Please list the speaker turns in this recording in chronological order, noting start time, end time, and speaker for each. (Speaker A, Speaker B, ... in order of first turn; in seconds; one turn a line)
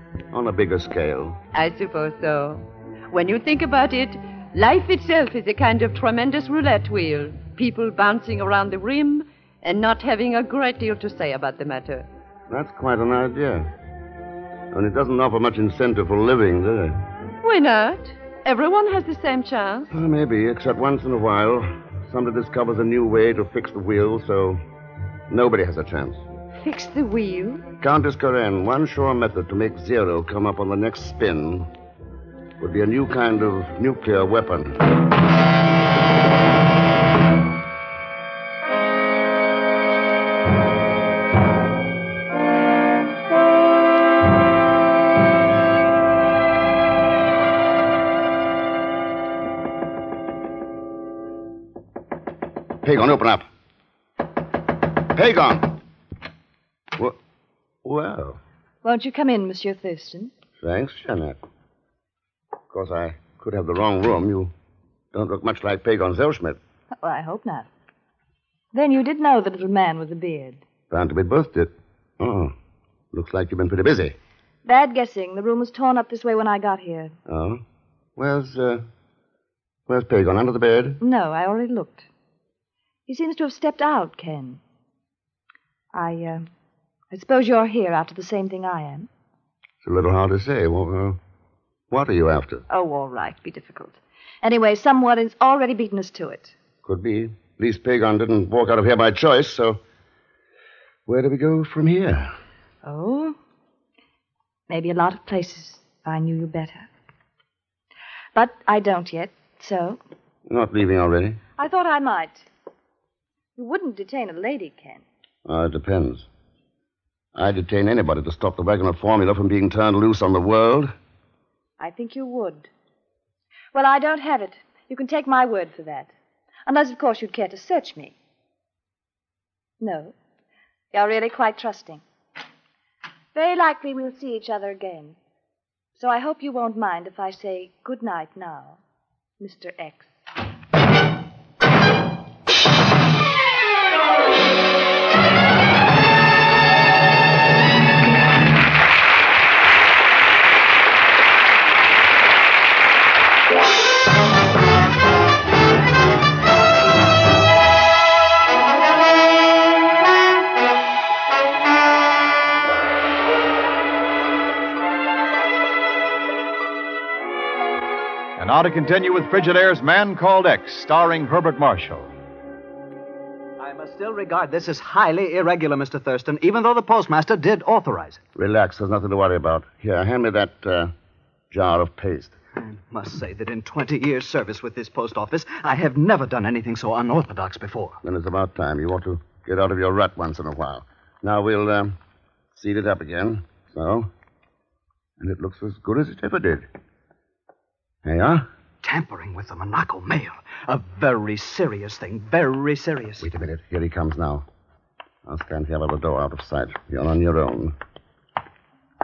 Speaker A: 0.3-1.4
Speaker B: 1.5-12.1
Speaker A: 12.5-13.7
Speaker A: 14.7-17.0
Speaker B: 17.4-19.9
Speaker A: 19.9-24.6
Speaker A: 25.3-26.2
Speaker B: 26.6-27.7
Speaker A: 27.8-31.7
Speaker A: 32.6-34.8
Speaker A: 52.8-53.4
Speaker A: 55.1-55.8
Speaker A: 57.8-58.4
Speaker C: 58.8-60.3
Speaker A: 60.6-61.4
Speaker A: 62.7-64.5
Speaker A: 65.1-66.6
Speaker C: 67.0-67.7
Speaker C: 68.7-70.6
Speaker A: 70.9-72.5
Speaker A: 73.1-74.2
Speaker C: 74.6-77.1
Speaker A: 77.3-77.6
Speaker A: 78.2-78.8
Speaker A: 79.9-81.0
Speaker C: 81.0-82.0
Speaker C: 83.1-84.6
Speaker C: 85.9-86.5
Speaker C: 87.1-89.1
Speaker A: 89.8-91.2
Speaker A: 91.9-92.6
Speaker C: 92.7-96.5
Speaker A: 96.8-99.8
Speaker A: 101.0-102.3
Speaker C: 102.8-103.4
Speaker C: 104.7-106.9
Speaker C: 108.3-110.0
Speaker A: 110.5-111.4
Speaker C: 111.6-112.5
Speaker C: 113.5-115.0
Speaker A: 115.5-116.3
Speaker A: 117.3-120.9
Speaker C: 121.8-122.7
Speaker C: 123.7-126.1
Speaker C: 126.7-128.1
Speaker C: 129.8-130.1
Speaker C: 130.9-132.0
Speaker C: 133.3-135.2
Speaker C: 136.0-138.8
Speaker C: 139.4-140.1
Speaker D: 168.4-172.1
Speaker E: 173.6-178.2
Speaker A: 178.3-180.9
Speaker A: 181.5-182.4
Speaker E: 182.6-188.0
Speaker A: 188.0-192.0
Speaker A: 192.5-194.1
Speaker A: 195.2-196.7
Speaker A: 198.0-198.4
Speaker E: 198.8-203.3
Speaker A: 203.2-204.4
Speaker A: 205.2-207.8